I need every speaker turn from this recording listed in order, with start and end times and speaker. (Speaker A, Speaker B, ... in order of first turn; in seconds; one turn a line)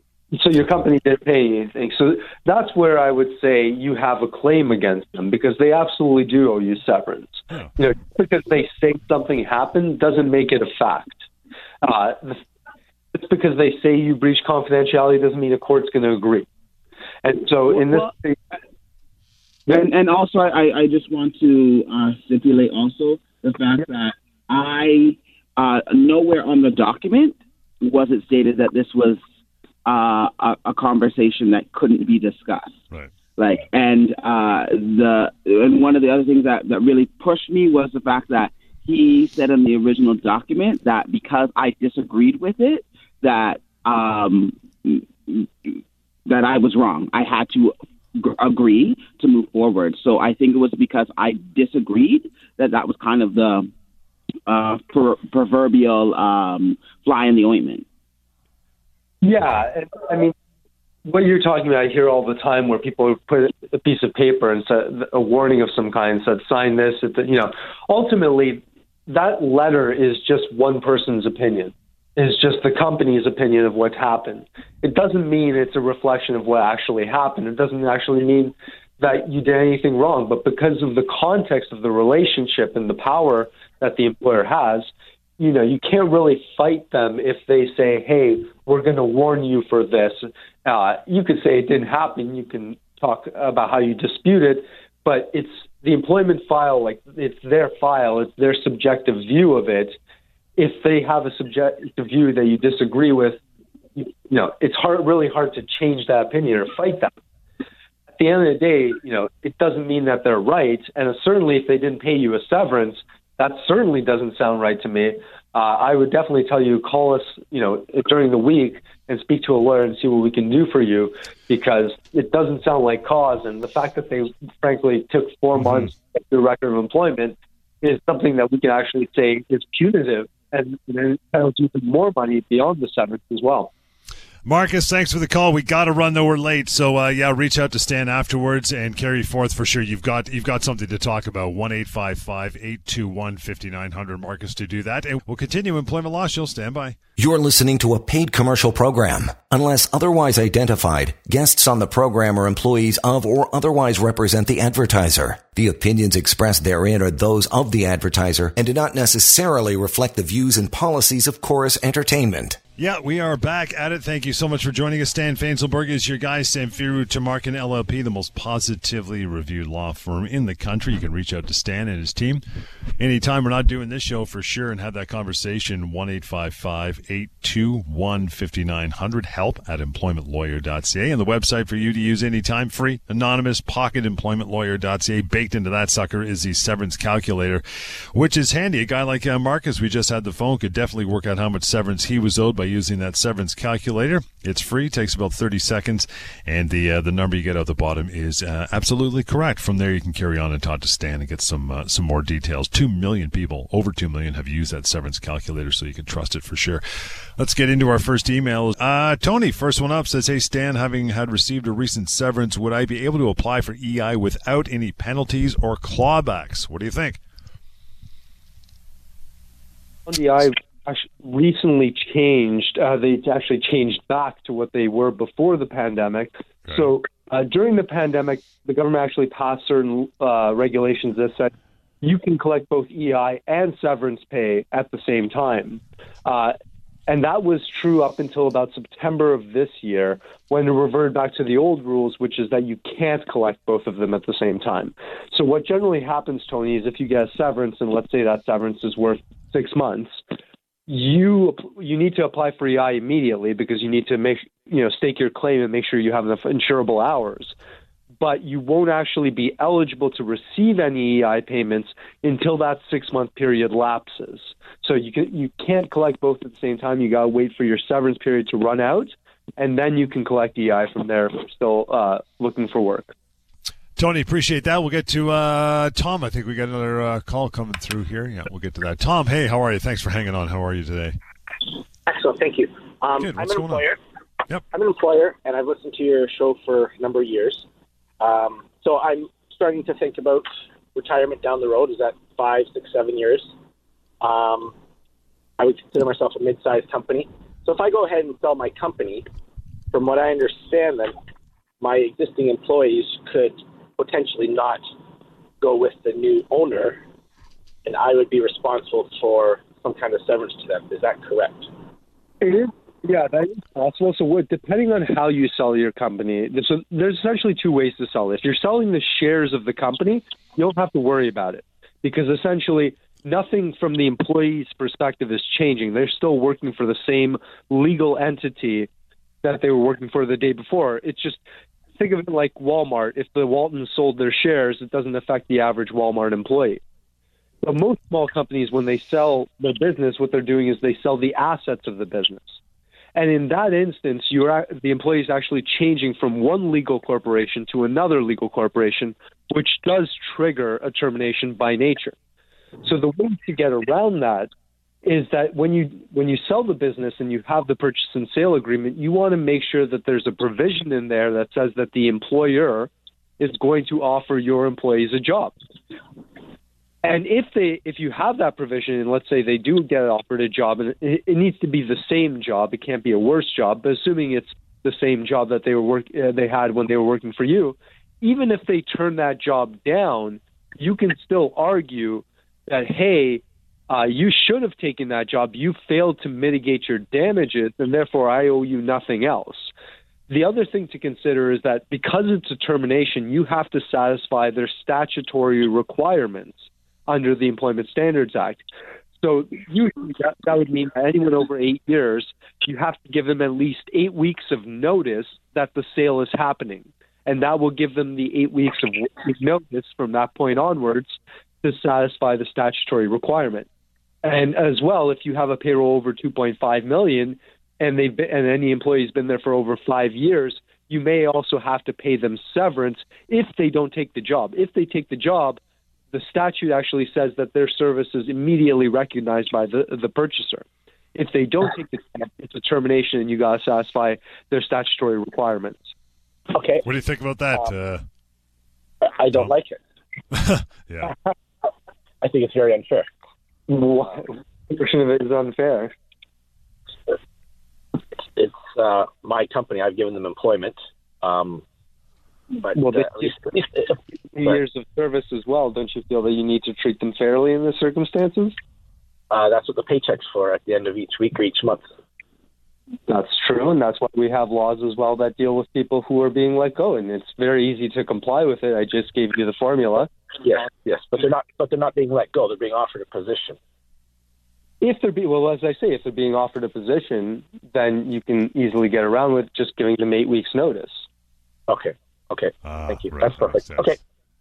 Speaker A: 0.3-11.3
Speaker A: 11.8-12.4
Speaker A: 13.1-16.5
Speaker A: 17.2-18.4
Speaker B: 17.7-18.1
Speaker B: 19.7-29.2
Speaker B: 29.9-32.8
Speaker B: 33.4-53.7
Speaker B: 54.5-57.9
Speaker A: 59.2-60.3
Speaker A: 61.0-100.0
Speaker A: 100.6-103.4
Speaker A: 104.0-107.1
Speaker A: 108.2-133.7
Speaker C: 134.4-147.0
Speaker D: 147.2-162.6
Speaker C: 162.8-172.4
Speaker C: 173.0-217.2
Speaker A: 220.1-250.2
Speaker A: 250.9-257.5
Speaker A: 258.2-273.1
Speaker C: 274.0-281.2
Speaker E: 282.1-284.0
Speaker C: 283.2-283.9
Speaker E: 284.7-287.7
Speaker E: 288.2-293.5
Speaker E: 294.2-294.7
Speaker E: 295.6-299.3
Speaker E: 299.9-301.1
Speaker E: 301.8-304.8
Speaker E: 305.6-307.0
Speaker E: 307.9-311.7
Speaker A: 312.4-328.9
Speaker A: 329.4-331.4
Speaker A: 332.0-336.8
Speaker A: 337.6-342.6
Speaker A: 343.1-352.2
Speaker A: 352.8-354.5
Speaker A: 355.0-365.5
Speaker A: 367.0-389.7
Speaker A: 390.3-398.6
Speaker A: 399.2-413.7
Speaker A: 414.2-425.6
Speaker A: 426.1-435.8
Speaker E: 436.5-436.9
Speaker C: 436.8-438.0
Speaker E: 439.0-439.8
Speaker C: 440.3-441.2
Speaker E: 442.2-443.1
Speaker A: 443.7-445.9
Speaker E: 448.4-451.6
Speaker E: 452.6-453.9
Speaker A: 452.8-453.3
Speaker A: 454.3-458.6
Speaker E: 459.3-461.8
Speaker A: 463.1-470.1
Speaker E: 470.4-473.6
Speaker A: 474.8-481.1
Speaker E: 481.7-484.0
Speaker C: 482.6-483.9